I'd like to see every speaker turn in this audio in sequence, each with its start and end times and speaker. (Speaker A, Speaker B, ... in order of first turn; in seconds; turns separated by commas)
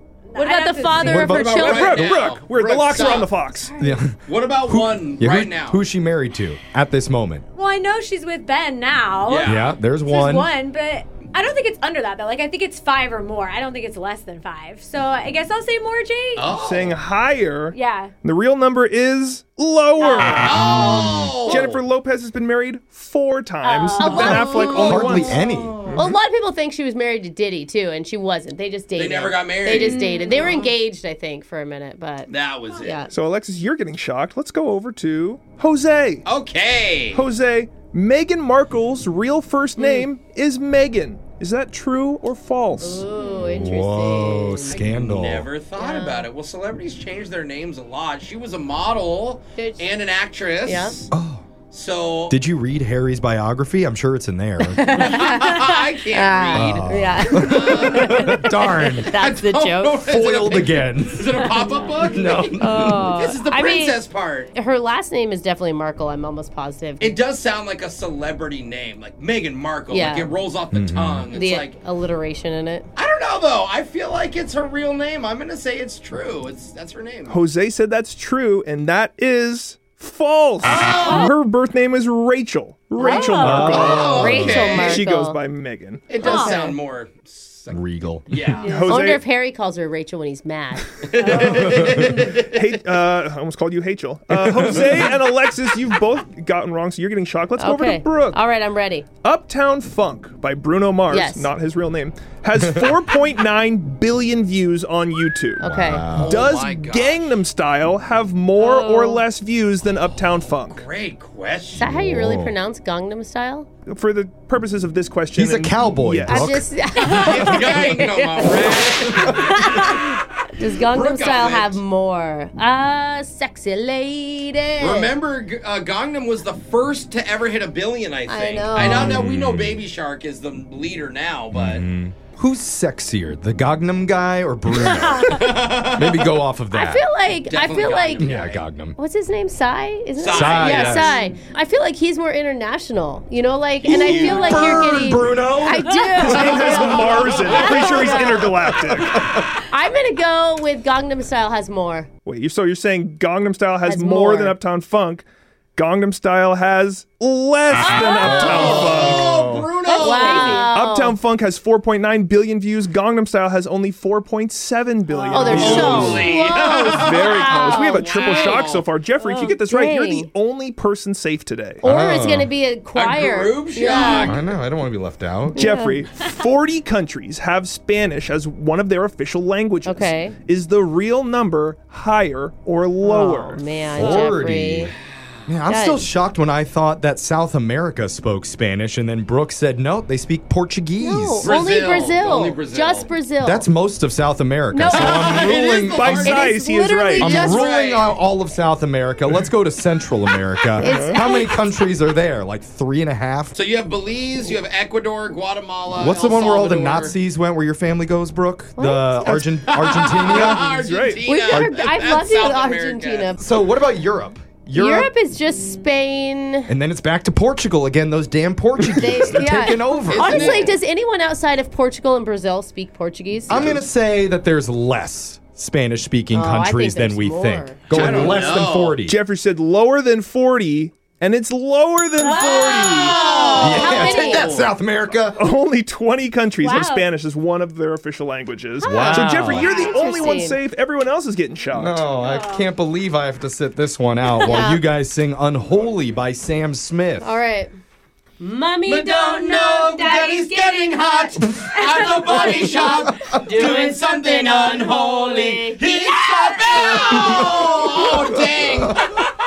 Speaker A: 0.3-1.4, Speaker B: 0.3-2.1, Speaker C: 0.9-1.6, Speaker D: 1.2-3.3, Speaker E: 1.5-3.7, Speaker A: 3.6-4.0, Speaker C: 3.8-7.5, Speaker D: 4.2-5.8, Speaker A: 7.5-16.5, Speaker D: 9.3-9.8, Speaker C: 9.4-10.5, Speaker D: 16.4-16.9, Speaker E: 16.5-20.6, Speaker A: 17.7-18.1, Speaker A: 20.0-20.5, Speaker D: 20.4-21.8, Speaker C: 20.8-21.1, Speaker E: 21.5-26.1, Speaker A: 23.6-24.7, Speaker B: 24.0-32.3, Speaker C: 24.2-25.8, Speaker A: 25.4-25.9, Speaker D: 28.9-30.5, Speaker A: 29.7-30.7, Speaker D: 32.3-33.0, Speaker B: 32.8-33.1, Speaker E: 33.1-36.3, Speaker D: 36.3-37.2, Speaker E: 37.1-43.0, Speaker B: 42.8-44.9, Speaker C: 43.4-45.5, Speaker D: 44.7-51.1, Speaker B: 45.8-46.3, Speaker B: 49.6-49.9, Speaker B: 50.6-51.0, Speaker C: 51.1-51.5, Speaker D: 51.7-52.4, Speaker C: 52.3-54.9, Speaker B: 54.6-60.0, Speaker D: 54.9-56.8, Speaker C: 56.5-59.1, Speaker D: 57.3-64.5, Speaker C: 60.0-61.4, Speaker C: 62.1-62.9, Speaker B: 62.6-64.0, Speaker B: 64.5-67.1, Speaker D: 67.0-71.8, Speaker B: 69.9-70.4, Speaker C: 70.7-71.3, Speaker B: 71.3-72.9, Speaker D: 73.0-77.4, Speaker E: 77.3-86.2, Speaker D: 80.8-81.0, Speaker A: 81.0-81.3, Speaker A: 83.0-84.0, Speaker C: 83.4-84.7, Speaker D: 83.6-85.0, Speaker B: 83.8-85.4, Speaker D: 86.1-88.8, Speaker A: 86.2-86.6, Speaker B: 86.2-86.8, Speaker C: 87.7-88.4, Speaker E: 88.6-89.2, Speaker A: 88.6-89.0, Speaker B: 88.8-91.7, Speaker D: 91.1-92.7, Speaker E: 91.4-98.4, Speaker C: 94.3-95.1, Speaker B: 97.6-99.1, Speaker E: 99.2-105.6, Speaker B: 101.1-101.5, Speaker B: 105.6-106.1, Speaker C: 105.6-106.4, Speaker D: 106.1-107.3, Speaker E: 106.2-110.9, Speaker B: 108.6-109.2, Speaker D: 110.0-111.8, Speaker B: 111.8-113.7, Speaker C: 111.9-112.6, Speaker E: 113.9-116.6, Speaker C: 115.3-116.7, Speaker B: 116.2-125.1, Speaker D: 117.0-120.0, Speaker A: 119.7-119.9, Speaker D: 120.9-121.8, Speaker D: 124.8-131.8, Speaker B: 128.3-129.2, Speaker C: 128.8-129.8, Speaker C: 131.5-137.1, Speaker D: 134.8-136.3, Speaker B: 136.7-138.3, Speaker D: 137.4-138.6, Speaker C: 138.2-139.0, Speaker B: 139.0-148.6, Speaker D: 140.2-141.1, Speaker C: 140.3-141.2, Speaker C: 143.8-147.2, Speaker D: 143.9-144.9, Speaker E: 146.2-149.3, Speaker D: 147.4-148.2, Speaker C: 148.5-149.5, Speaker B: 149.7-152.1, Speaker E: 152.2-155.2, Speaker B: 153.8-154.6, Speaker E: 155.8-159.3, Speaker D: 158.2-160.7, Speaker C: 158.2-159.7, Speaker A: 159.8-160.7, Speaker B: 159.9-161.2, Speaker E: 160.7-166.4, Speaker B: 165.3-170.3, Speaker C: 165.4-166.3, Speaker D: 165.5-168.8, Speaker E: 166.9-171.8, Speaker B: 171.8-174.4, Speaker C: 171.8-172.5, Speaker D: 172.9-174.5, Speaker C: 174.0-175.7, Speaker E: 175.6-184.1, Speaker B: 175.6-176.0, Speaker B: 179.8-180.4, Speaker B: 183.0-184.9, Speaker C: 183.9-184.9, Speaker C: 185.5-191.6, Speaker B: 185.7-186.1, Speaker B: 191.0-193.7, Speaker D: 191.4-193.1, Speaker C: 193.4-196.4, Speaker B: 194.7-197.7, Speaker D: 194.9-196.6, Speaker E: 195.9-197.3, Speaker D: 197.2-198.2, Speaker C: 197.2-203.6, Speaker E: 200.8-201.2, Speaker B: 200.8-201.6, Speaker D: 203.6-207.2, Speaker C: 206.0-210.6, Speaker B: 208.8-209.4, Speaker D: 209.7-213.4, Speaker E: 210.4-211.2, Speaker B: 211.2-213.4, Speaker C: 213.4-215.1, Speaker B: 214.7-216.7, Speaker C: 216.7-220.6, Speaker B: 218.9-223.8, Speaker D: 220.1-220.8, Speaker C: 223.5-229.2, Speaker D: 223.5-223.8, Speaker B: 226.3-227.9, Speaker D: 227.9-229.0, Speaker E: 228.0-228.5, Speaker E: 229.0-233.2, Speaker A: 232.2-234.2, Speaker B: 232.3-234.6, Speaker D: 233.0-234.7, Speaker C: 233.6-235.4, Speaker E: 235.3-242.1, Speaker A: 236.6-237.1, Speaker A: 238.8-239.2, Speaker C: 238.9-239.8, Speaker B: 238.9-240.6, Speaker C: 241.7-247.3, Speaker A: 242.2-242.7, Speaker A: 244.2-244.6, Speaker B: 244.5-244.9, Speaker B: 247.2-247.7, Speaker B: 248.4-251.4, Speaker D: 248.9-259.2, Speaker A: 251.9-252.9, Speaker B: 252.0-257.9, Speaker C: 257.1-257.5